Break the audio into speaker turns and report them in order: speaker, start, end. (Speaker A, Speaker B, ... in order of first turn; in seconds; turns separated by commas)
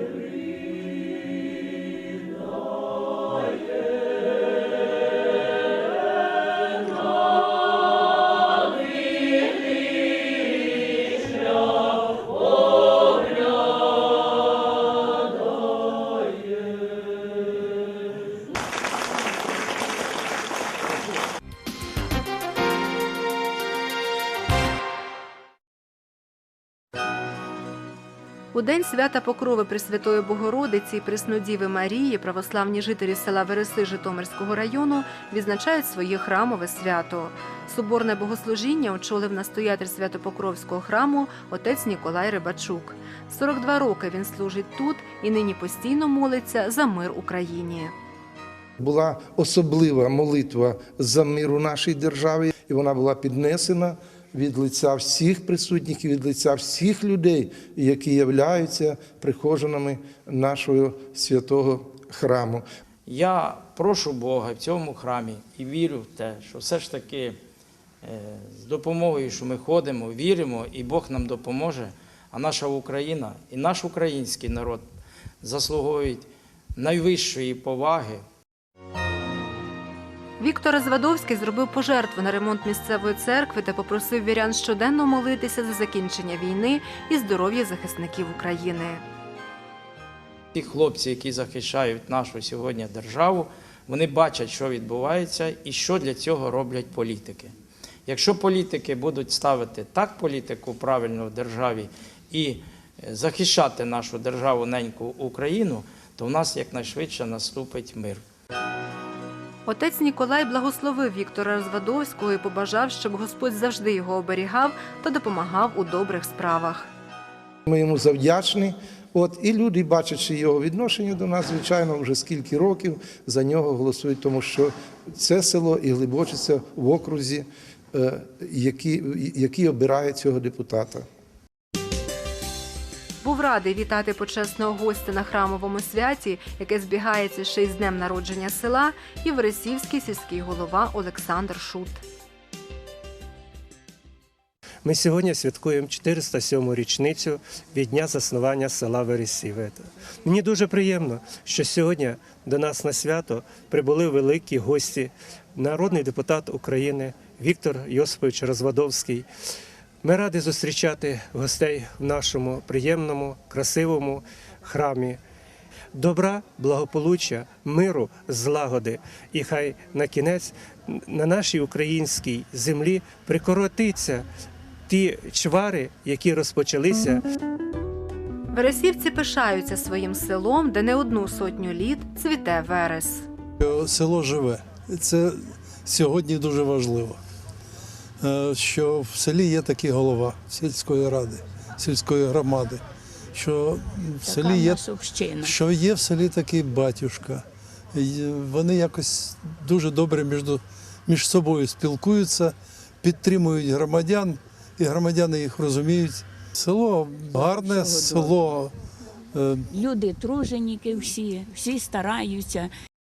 Speaker A: 28.5-48.0, Speaker B: 48.8-62.6, Speaker C: 63.1-67.4, Speaker C: 68.0-74.8, Speaker C: 75.4-78.2, Speaker A: 80.4-89.0, Speaker C: 90.5-97.5, Speaker C: 98.1-108.2, Speaker A: 109.7-116.9, Speaker B: 117.7-131.1, Speaker A: 133.2-142.0, Speaker D: 144.8-159.3, Speaker D: 160.0-165.2, Speaker D: 165.9-174.3, Speaker D: 174.9-177.2, Speaker A: 178.5-183.3, Speaker E: 183.6-187.2, Speaker E: 188.2-192.8, Speaker E: 193.3-194.9, Speaker F: 194.3-195.5, Speaker E: 195.4-208.7, Speaker F: 207.4-208.3, Speaker E: 209.3-209.7, Speaker F: 209.7-212.7